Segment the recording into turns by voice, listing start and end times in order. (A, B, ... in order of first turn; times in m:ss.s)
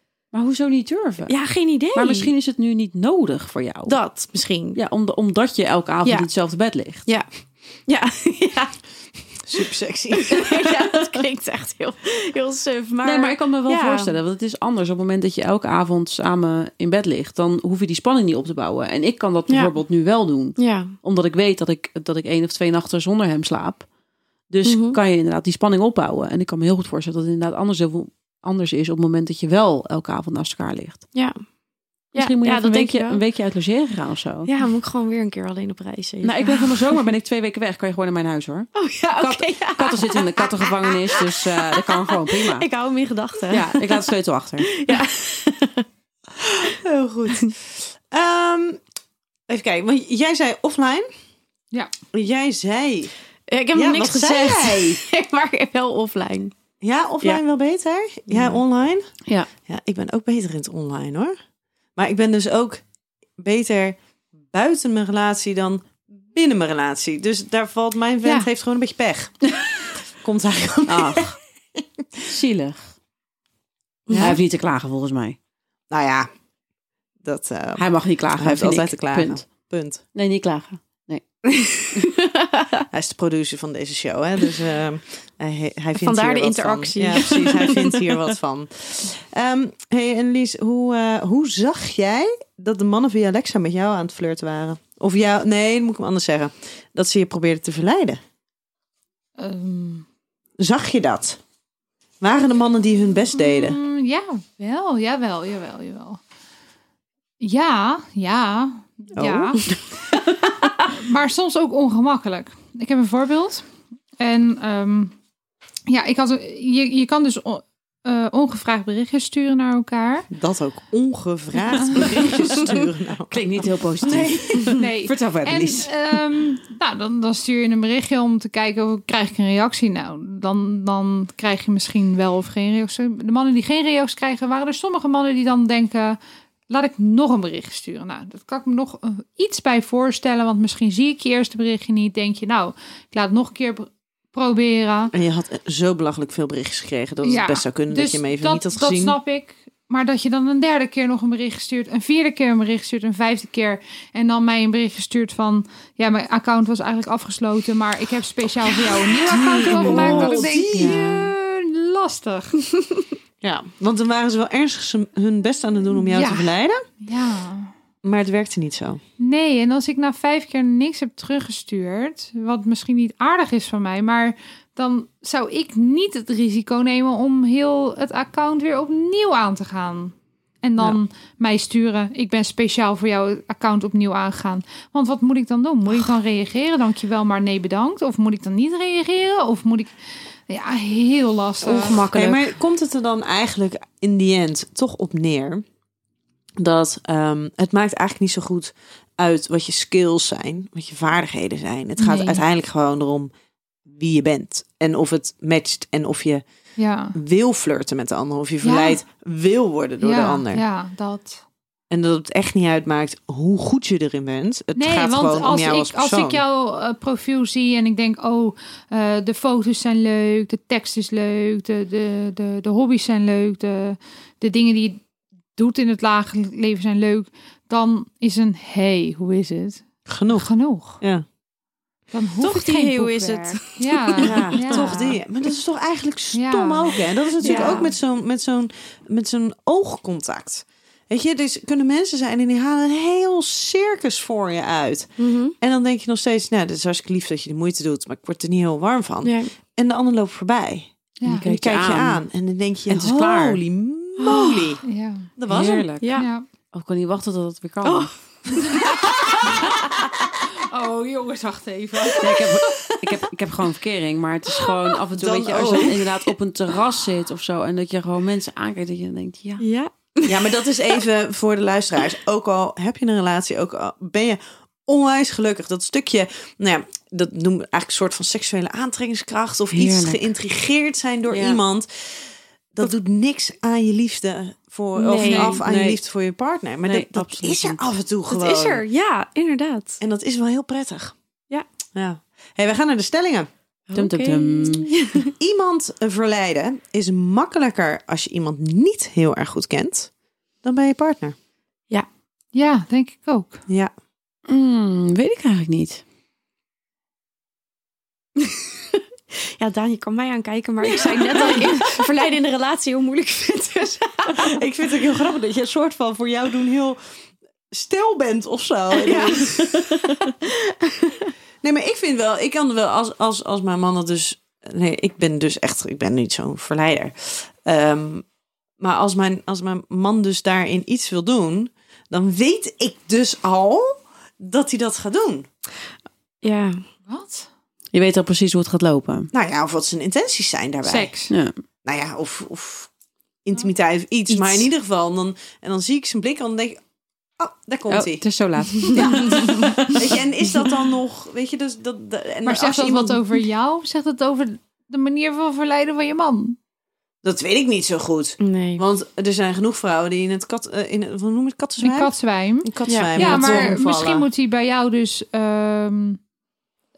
0:00.3-0:01.3 A
0:01.3-0:02.3 B
0:01.9-0:04.0 A
0:03.9-0:04.8 B
0:04.8-0:07.1 A
0:07.9-0:08.8 B
0:09.4-0:10.7 C
0:10.1-0:14.1 B
0:13.0-0:23.9 A
0:19.5-0:19.7 B
0:20.6-0:20.9 B
0:24.5-0:31.1 A
0:24.6-0:25.0 B
0:32.1-0:33.2 B
0:32.2-0:34.5 A
0:34.5-0:37.0 B
0:36.2-0:42.7 A
0:38.8-0:44.1 B
0:43.5-0:44.8 A
0:44.6-0:45.9 B
0:46.6-0:48.8 C
0:49.5-0:51.1 C
0:52.1-0:53.1 C
0:53.5-0:56.5 B
0:53.7-0:55.0 C
0:56.8-0:59.0 C
0:58.3-0:58.6 B
0:59.7-1:01.4 C
1:02.0-1:02.8 C
1:03.4-1:04.0 C
1:04.5-1:09.4 C
1:10.2-1:11.8 C
1:10.9-1:11.4 A
1:12.2-1:12.9 A
1:14.1-1:14.4 B
1:14.1-1:14.4 C
1:14.2-1:15.4 A
1:15.9-1:16.3 C
1:17.2-1:20.0 C
1:17.8-1:19.5 A
1:20.2-1:21.2 A
1:21.5-1:22.8 B
1:22.9-1:38.2 C
1:26.0-1:28.0 B
1:39.4-1:40.0 D
1:40.6-1:41.4 C
1:42.2-1:43.8 C
1:43.4-1:46.2 D
1:47.4-1:49.8 D
1:49.2-1:49.6 C
1:50.9-1:53.7 D
1:54.2-1:55.1 D
1:55.9-2:00.3 D
2:00.3-2:03.4 C
2:01.8-2:02.2 D
2:03.3-2:05.9 A
2:04.0-2:04.6 C
2:04.6-2:16.2 D
2:16.7-2:25.1 D
2:25.1-2:29.2 C
2:27.2-2:42.6 D
2:39.0-2:41.1 C
2:39.7-2:41.1 A
2:43.4-2:46.8 C
2:46.0-2:47.7 D
2:48.0-2:49.0 C
2:49.2-3:09.9 D
3:10.5-3:12.0 D
3:11.6-3:12.5 B
3:12.1-3:15.6 C
3:16.6-3:23.3 C
3:22.0-3:22.4 D
3:23.8-3:26.4 C
3:26.8-3:27.2 D
3:27.2-3:30.6 C
3:28.6-3:29.0 D
3:30.0-3:31.4 D
3:31.9-3:36.4 C
3:34.8-3:45.0 D
3:45.5-3:51.0 D
3:50.1-3:51.2 C
3:52.1-3:55.2 D
3:52.4-3:54.8 B
3:54.2-4:10.9 C
3:56.3-3:57.9 D
3:57.4-3:57.9 B
4:05.2-4:05.5 B
4:09.2-4:09.5 B
4:11.2-4:12.2 A
4:11.4-4:14.8 C
4:12.9-4:13.6 A
4:14.2-4:14.6 B
4:14.3-4:15.3 D
4:15.4-4:15.9 C
4:15.5-4:16.2 A
4:16.0-4:16.3 B
4:16.2-4:16.5 D
4:16.7-4:18.1 A
4:17.8-4:19.7 B
4:20.6-4:23.0 D
4:22.2-4:29.6 A
4:25.2-4:26.0 C
4:25.6-4:25.9 B
4:29.6-4:30.6 B
4:30.2-4:48.8 C
4:39.7-4:40.3 A
4:41.3-4:41.6 B
4:45.0-4:45.6 B
4:45.2-4:45.6 D
4:45.6-4:46.0 A
4:46.8-4:47.9 A
4:48.3-4:50.0 B
4:50.0-4:51.2 C
4:52.0-4:53.5 C
4:53.9-4:55.3 B
4:54.0-4:54.9 A
4:55.3-5:00.1 C
5:00.6-5:01.4 C
5:02.5-5:03.6 D
5:04.5-5:06.0 A
5:09.6-5:14.6 B
5:10.8-5:11.8 C
5:14.3-5:17.0 C
5:17.7-5:19.9 C
5:18.9-5:21.3 B
5:21.6-5:28.2 C
5:28.8-5:35.5 C
5:36.4-5:36.8 B
5:37.1-5:37.5 D
5:37.9-5:39.3 A
5:39.3-5:41.1 C
5:40.9-5:41.3 D
5:41.3-5:41.6 A
5:41.8-5:42.9 C
5:43.5-5:46.8 C
5:47.4-5:48.2 C
5:47.9-5:50.2 A
5:48.9-5:49.6 D
5:49.0-5:49.7 B
5:50.0-5:53.4 C
5:52.4-5:56.6 D
5:57.2-6:04.3 C
5:58.4-5:58.8 B
6:01.8-6:06.2 D
6:02.9-6:03.7 B